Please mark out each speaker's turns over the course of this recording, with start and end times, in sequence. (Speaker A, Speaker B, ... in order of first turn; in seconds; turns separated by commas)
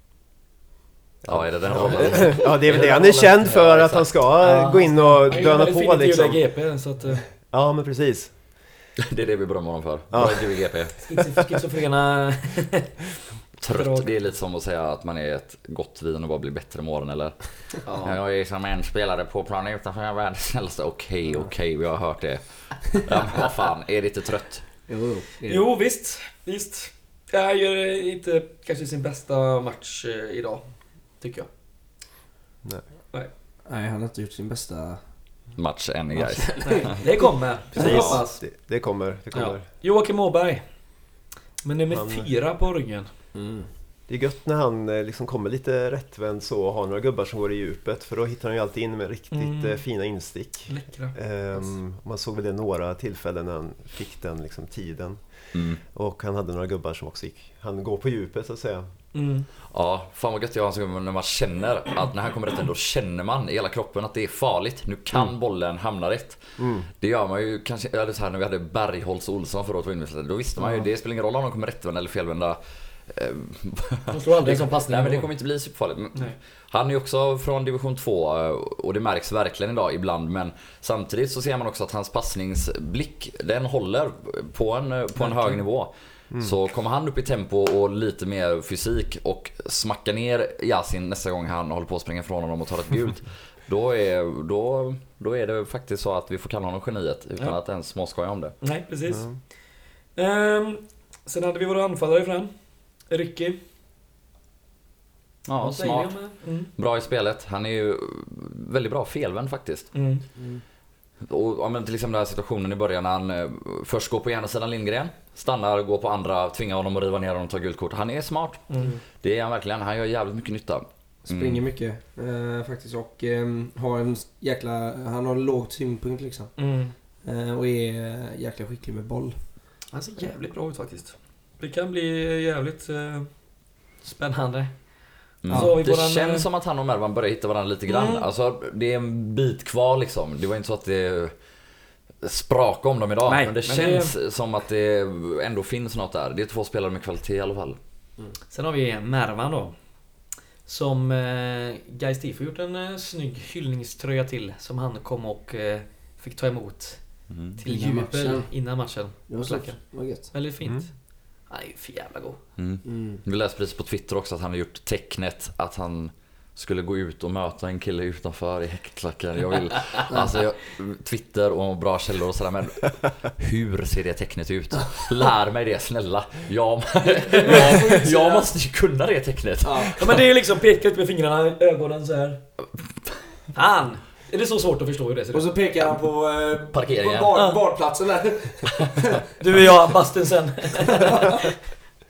Speaker A: 1.2-6.7, Speaker B: 1.3-4.2, Speaker C: 4.4-7.3, Speaker A: 7.3-8.6, Speaker B: 9.0-11.1, Speaker A: 10.1-11.5, Speaker C: 11.0-13.0, Speaker B: 13.6-24.9, Speaker C: 13.7-14.1, Speaker C: 17.8-18.2, Speaker D: 21.3-21.5, Speaker D: 24.9-25.7, Speaker C: 25.5-31.5, Speaker D: 33.7-35.0, Speaker B: 35.6-38.2, Speaker D: 36.1-37.1, Speaker C: 36.6-38.5, Speaker A: 37.8-39.7, Speaker C: 39.3-43.1, Speaker A: 41.9-42.3, Speaker D: 43.3-43.7, Speaker A: 44.1-58.9, Speaker C: 49.3-50.1, Speaker C: 50.7-51.8, Speaker B: 55.5-55.8, Speaker C: 59.1-59.5, Speaker B: 59.7-98.6, Speaker A: 66.6-66.9, Speaker C: 74.1-75.3, Speaker C: 85.2-85.6, Speaker C: 98.6-103.6, Speaker A: 99.1-99.4, Speaker B: 105.5-109.9, Speaker C: 105.6-106.7, Speaker C: 109.9-110.2, Speaker D: 110.4-110.6, Speaker B: 111.2-121.6, Speaker C: 118.7-119.0, Speaker D: 121.2-129.5, Speaker C: 126.6-127.0, Speaker C: 129.9-136.5, Speaker B: 135.4-141.3, Speaker D: 135.5-135.8, Speaker C: 137.9-138.3, Speaker B: 142.2-147.8, Speaker C: 143.3-144.1, Speaker C: 148.5-162.4, Speaker B: 157.3-157.6, Speaker D: 157.7-160.3, Speaker A: 160.6-160.9, Speaker B: 162.6-180.3, Speaker D: 162.8-163.2, Speaker C: 177.2-178.0, Speaker D: 177.2-178.5, Speaker D: 179.6-180.0, Speaker C: 180.0-182.4, Speaker C: 183.5-185.5, Speaker D: 185.3-189.2, Speaker B: 186.7-187.3, Speaker C: 187.3-187.6, Speaker C: 189.4-191.5, Speaker D: 191.0-191.5